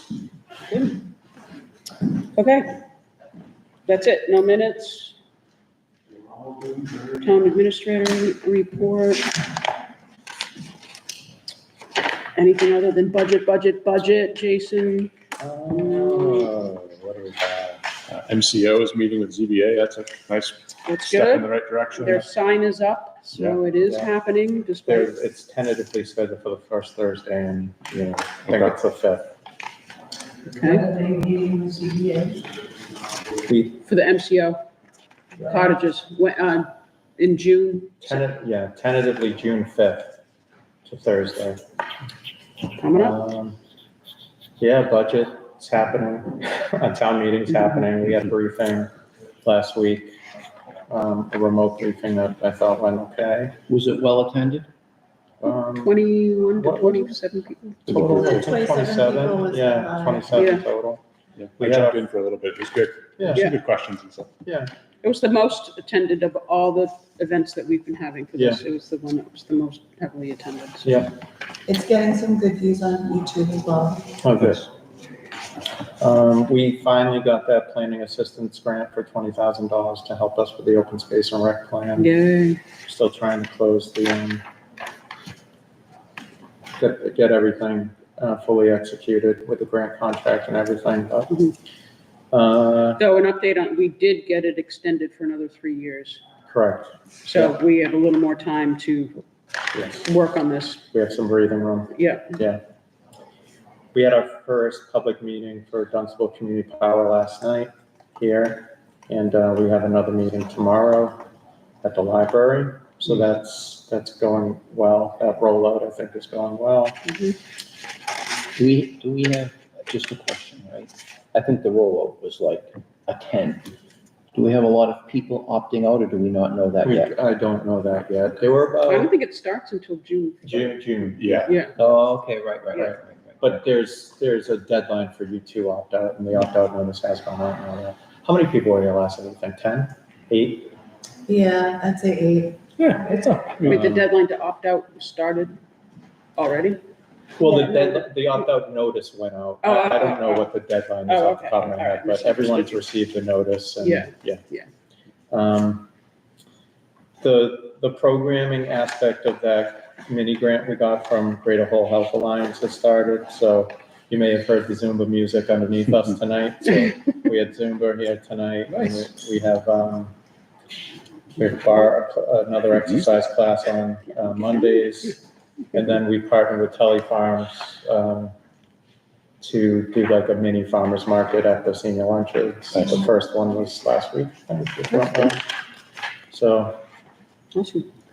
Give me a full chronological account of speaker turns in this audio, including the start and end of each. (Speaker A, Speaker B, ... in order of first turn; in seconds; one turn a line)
Speaker A: 0.7-1.0
Speaker A: 2.3-2.8
Speaker A: 3.9-5.1
Speaker A: 7.1-9.4
Speaker A: 12.3-15.1
Speaker B: 15.4-17.7
Speaker A: 15.7-16.5
Speaker C: 17.7-22.2
Speaker A: 20.8-25.2
Speaker B: 23.6-24.1
Speaker B: 24.8-29.3
Speaker C: 28.4-28.7
Speaker A: 30.5-30.9
Speaker D: 30.9-32.4
Speaker B: 33.5-33.8
Speaker A: 33.8-34.6
Speaker A: 35.4-38.3
Speaker B: 38.0-40.2
Speaker B: 40.9-41.6
Speaker A: 42.8-43.2
Speaker B: 42.9-43.6
Speaker B: 44.6-48.9
Speaker B: 49.4-50.1
Speaker B: 50.9-53.5
Speaker E: 53.7-54.7
Speaker B: 55.4-56.0
Speaker A: 55.8-58.0
Speaker B: 56.6-57.1
Speaker B: 57.9-61.0
Speaker D: 57.9-60.6
Speaker A: 60.3-60.6
Speaker C: 61.4-64.3
Speaker B: 61.6-62.0
Speaker B: 63.2-63.5
Speaker B: 64.4-64.7
Speaker A: 65.0-71.0
Speaker B: 68.3-68.6
Speaker B: 70.8-71.1
Speaker D: 71.7-74.2
Speaker B: 74.2-74.7
Speaker B: 76.0-82.1
Speaker A: 82.0-82.6
Speaker B: 82.8-84.4
Speaker B: 86.8-91.4
Speaker B: 92.3-93.0
Speaker A: 93.0-96.2
Speaker B: 96.5-97.5
Speaker A: 97.2-99.2
Speaker B: 99.7-100.0
Speaker A: 99.9-100.8
Speaker B: 100.9-102.6
Speaker A: 101.9-102.3
Speaker B: 103.9-111.2
Speaker B: 111.8-117.0
Speaker A: 117.1-117.3
Speaker E: 118.5-123.7
Speaker E: 124.3-127.1
Speaker B: 126.8-129.1
Speaker A: 128.8-130.8
Speaker B: 130.4-131.9
Speaker C: 131.1-131.5
Speaker A: 131.4-131.7
Speaker E: 131.8-133.6
Speaker B: 132.8-140.7
Speaker D: 141.2-142.9
Speaker C: 142.8-143.9
Speaker A: 143.6-145.6
Speaker B: 143.7-144.0
Speaker A: 146.4-146.8
Speaker B: 147.4-154.4
Speaker A: 147.4-148.1
Speaker A: 149.6-150.5
Speaker A: 151.1-152.8
Speaker A: 153.8-154.7
Speaker B: 155.3-155.9
Speaker B: 157.2-170.1
Speaker B: 171.3-175.2
Speaker B: 175.7-178.3
Speaker B: 179.4-185.4
Speaker B: 186.3-186.8
Speaker A: 187.5-187.9